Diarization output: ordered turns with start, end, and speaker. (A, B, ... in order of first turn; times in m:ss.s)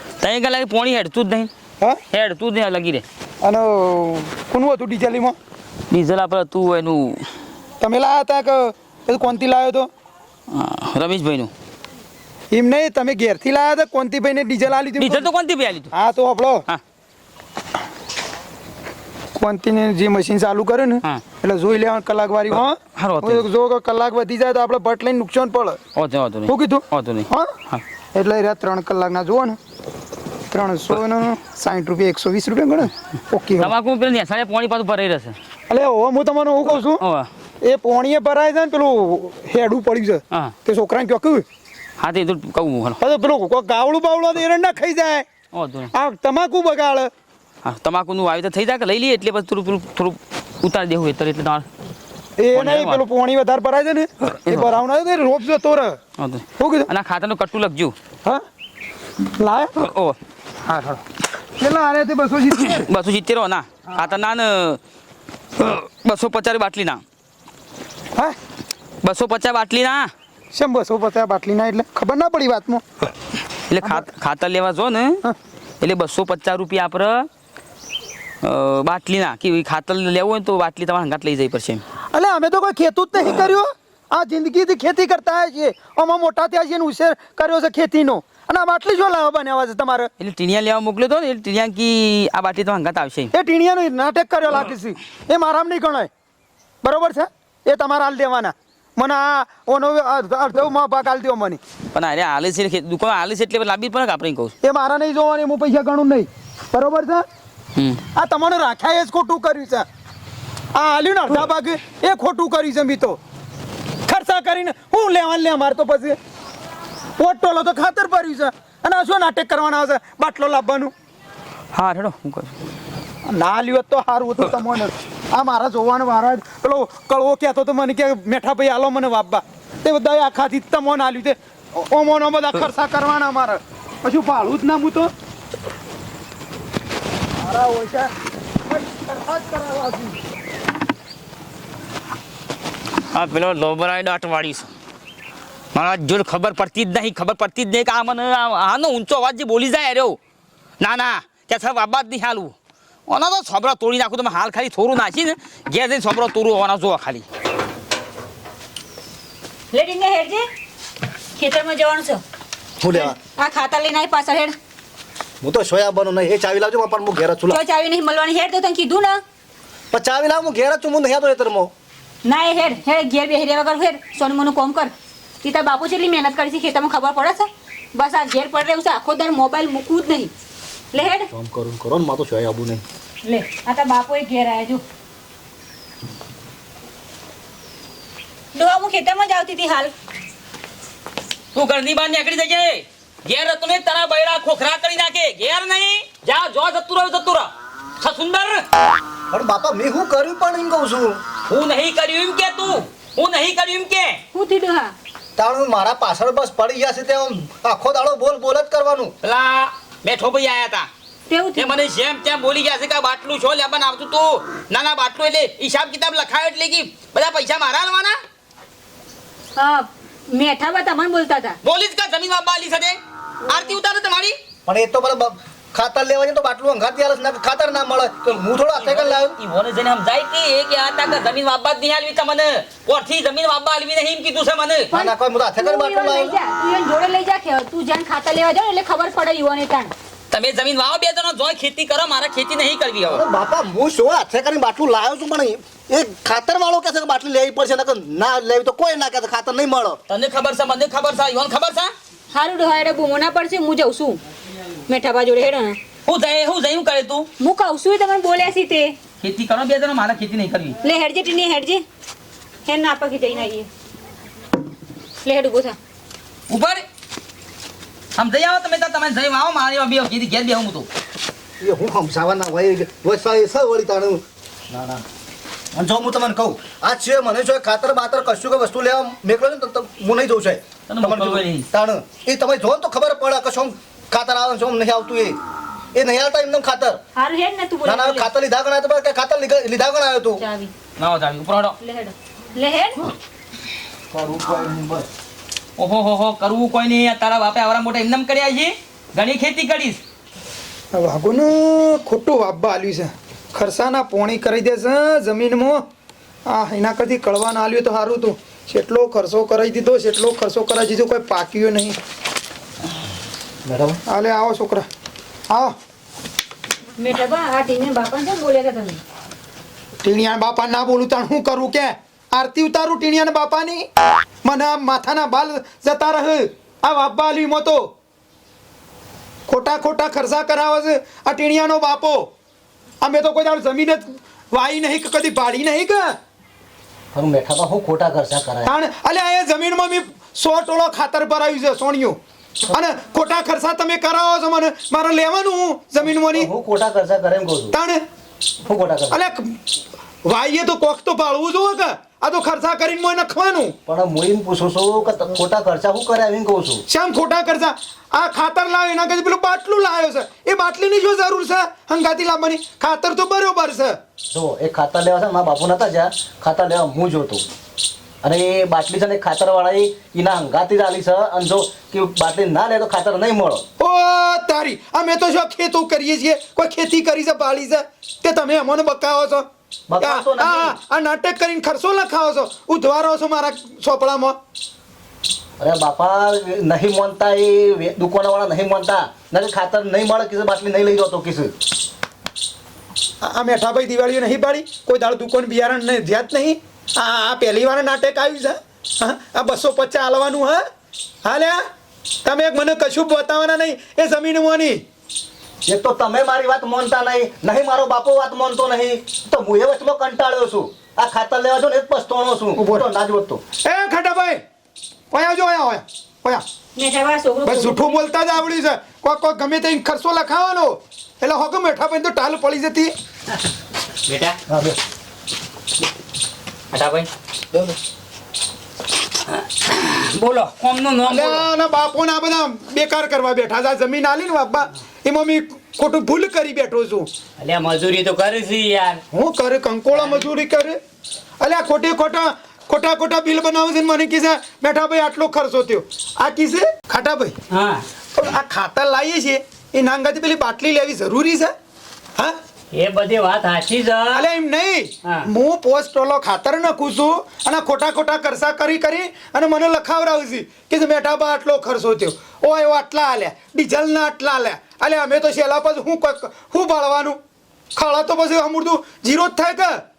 0:00.2-0:01.5 A
0:02.1-0:03.0 A
0:03.4-0:05.4 B
0:05.9-0:07.3 A
0:07.8-0:09.9 B
0:10.5-0:11.5 A
0:12.5-0:15.3 B
0:15.0-0:15.9 A
0:15.9-0:16.6 B
0:19.4-0:25.8 B
0:23.0-0:23.5 A
0:26.0-0:27.8 A
0:26.5-0:27.5 B
0:28.2-0:29.6 B
0:30.5-0:33.7 B
0:33.6-0:35.4 A
0:35.7-0:37.0 B
0:37.0-0:37.3 A
0:37.6-0:41.4 B
0:42.0-0:43.0 A
0:43.0-0:45.3 B
0:45.5-0:45.9 A
0:45.9-0:47.1 B
0:47.6-0:51.7 A
0:52.4-0:56.0 B
0:52.5-0:53.0 A
0:54.4-0:54.8 A
0:56.2-0:58.0 A
0:56.6-0:56.9 B
0:59.4-0:59.9 B
0:59.8-1:00.2 A
1:00.6-1:01.0 B
1:01.6-1:02.9 B
1:02.7-1:04.8 A
1:05.6-1:07.0 A
1:09.0-1:10.1 A
1:10.5-1:12.8 B
1:13.7-1:15.2 A
1:15.8-1:17.3 A
1:18.4-1:21.8 A
1:22.1-1:30.1 B
1:30.2-1:33.3 A
1:33.3-1:36.1 B
1:36.8-1:41.6 B
1:41.9-1:44.5 A
1:44.6-1:47.2 B
1:47.8-1:48.0 A
1:48.2-1:49.9 B
1:50.7-1:53.2 B
1:54.1-1:56.2 B
1:57.2-2:00.9 B
2:01.7-2:02.5 A
2:03.3-2:15.1 B
2:17.4-2:18.1 B
2:18.7-2:20.2 B
2:23.1-2:24.7 A
2:25.7-2:30.2 A
2:30.8-2:32.5 A
2:33.1-2:37.2 A
2:39.7-2:40.5 C
2:41.4-2:42.2 C
2:42.8-2:43.2 D
2:42.9-2:44.6 C
2:45.4-2:47.6 D
2:47.5-2:49.2 C
2:49.9-2:51.7 D
2:52.2-3:00.3 C
3:00.9-3:01.3 C
3:01.3-3:02.8 D
3:03.2-3:04.8 C
3:08.5-3:09.9 C
3:11.5-3:17.5 A
3:18.0-3:18.6 A
3:19.3-3:21.2 D
3:21.5-3:24.2 A
3:24.3-3:24.9 C
3:25.4-3:29.1 D
3:29.2-3:30.9 A
3:31.3-3:31.7 C
3:31.6-3:38.2 A
3:39.6-3:41.6 C
3:41.6-3:44.4 A
3:44.7-3:49.4 D
3:48.8-3:54.9 A
3:54.9-3:59.9 C
3:54.9-3:56.4 D
4:00.3-4:03.2 A
4:03.1-4:10.0 D
4:10.1-4:11.9 A
4:12.3-4:14.2 C
4:14.8-4:15.8 C
4:16.1-4:17.3 A
4:17.4-4:19.0 C
4:19.2-4:20.8 A
4:20.8-4:21.8 C
4:22.6-4:23.7 C
4:25.2-4:25.8 C
4:26.5-4:26.8 A
4:28.2-4:30.9 A
4:31.6-4:35.0 D
4:35.7-4:45.4 D
4:40.9-4:41.7 A
4:45.9-4:47.0 D
4:47.2-4:48.3 C
4:47.8-4:50.4 D
4:50.4-4:50.7 C
4:51.0-4:51.8 A
4:51.8-4:53.0 C
4:54.1-4:55.1 D
4:55.8-5:00.0 A
5:00.9-5:05.8 B
5:06.5-5:12.0 B
5:13.6-5:14.0 D
5:14.1-5:14.9 B
5:15.5-5:15.8 B
5:17.0-5:19.0 C
5:20.0-5:23.9 B
5:24.4-5:27.9 B
5:29.5-5:32.3 B
5:33.0-5:36.1 B
5:37.1-5:38.7 D
5:38.6-5:42.2 B
5:42.7-5:46.5 B
5:46.0-5:47.8 D
5:47.7-5:48.0 B
5:48.6-5:49.2 D
5:49.1-5:49.6 B
5:50.2-5:53.8 B
5:53.9-5:56.8 D
5:56.9-6:04.0 B
6:04.3-6:07.4 D
6:08.2-6:13.6 D
6:13.8-6:19.5 B
6:19.9-6:20.8 D
6:20.0-6:24.4 B
6:25.6-6:31.5 D
6:33.2-6:40.6 B
6:41.2-6:41.6 B
6:42.2-6:44.8 B
6:45.7-6:53.4 D
6:52.6-6:52.9 B
6:53.6-6:54.4 B
6:55.1-6:56.4 B
6:56.8-6:58.0 C
6:57.5-7:02.9 B
7:04.1-7:04.4 E
7:04.5-7:04.8 D
7:06.7-7:07.1 E
7:09.3-7:11.5 E
7:11.0-7:17.1 B
7:17.4-7:19.0 E
7:19.1-7:20.8 B
7:19.9-7:20.3 E
7:21.4-7:27.4 B
7:27.5-7:27.8 E
7:28.2-7:31.5 B
7:32.7-7:34.3 E
7:34.1-7:47.2 B
7:35.0-7:35.3 E
7:47.8-7:49.8 B